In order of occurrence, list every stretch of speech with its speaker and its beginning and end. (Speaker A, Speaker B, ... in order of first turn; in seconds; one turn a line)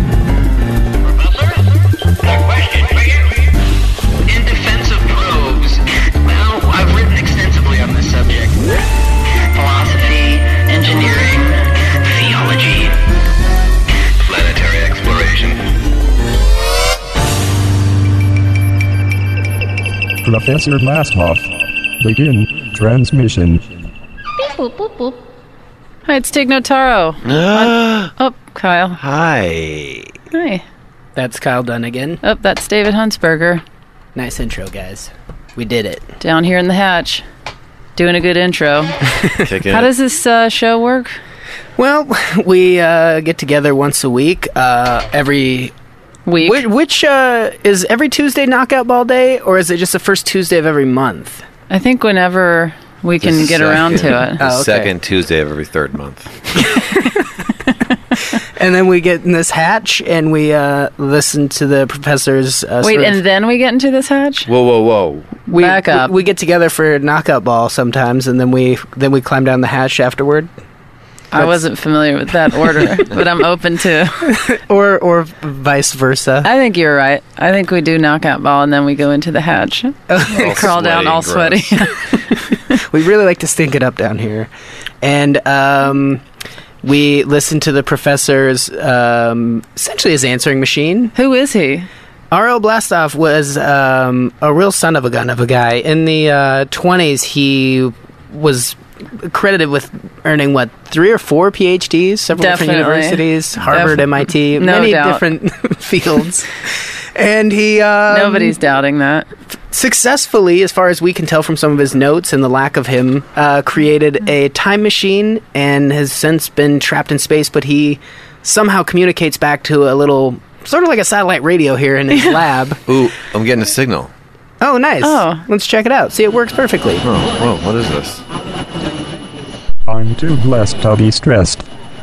Speaker A: 1.1-1.6
Speaker A: 2.2-3.3
Speaker A: 4.2-13.0
Speaker A: 14.2-15.7
Speaker B: 20.2-23.8
Speaker C: 24.6-25.1
Speaker C: 26.1-29.0
Speaker D: 27.2-28.1
Speaker D: 29.0-30.1
Speaker C: 30.3-30.6
Speaker E: 31.1-32.2
Speaker C: 32.2-33.6
Speaker E: 34.1-36.1
Speaker C: 36.2-37.2
Speaker C: 38.0-38.9
Speaker D: 39.4-39.9
Speaker C: 39.6-41.1
Speaker E: 41.8-45.7
Speaker C: 46.2-46.6
Speaker E: 46.4-51.4
Speaker C: 51.7-54.4
Speaker D: 53.2-56.6
Speaker E: 54.4-54.9
Speaker E: 56.6-56.9
Speaker E: 58.4-63.2
Speaker C: 62.8-64.5
Speaker D: 64.5-65.4
Speaker E: 65.5-70.5
Speaker C: 65.5-66.2
Speaker C: 71.3-74.4
Speaker E: 71.3-71.6
Speaker E: 74.2-76.5
Speaker C: 76.4-82.1
Speaker E: 80.1-80.7
Speaker D: 80.3-81.8
Speaker E: 82.8-84.5
Speaker E: 85.0-86.2
Speaker E: 86.8-91.1
Speaker C: 91.1-91.9
Speaker E: 92.3-108.6
Speaker C: 102.3-105.2
Speaker C: 108.1-109.3
Speaker E: 109.7-122.8
Speaker D: 122.9-124.1
Speaker E: 124.6-127.0
Speaker C: 125.0-125.4
Speaker D: 127.0-128.2
Speaker B: 129.9-131.6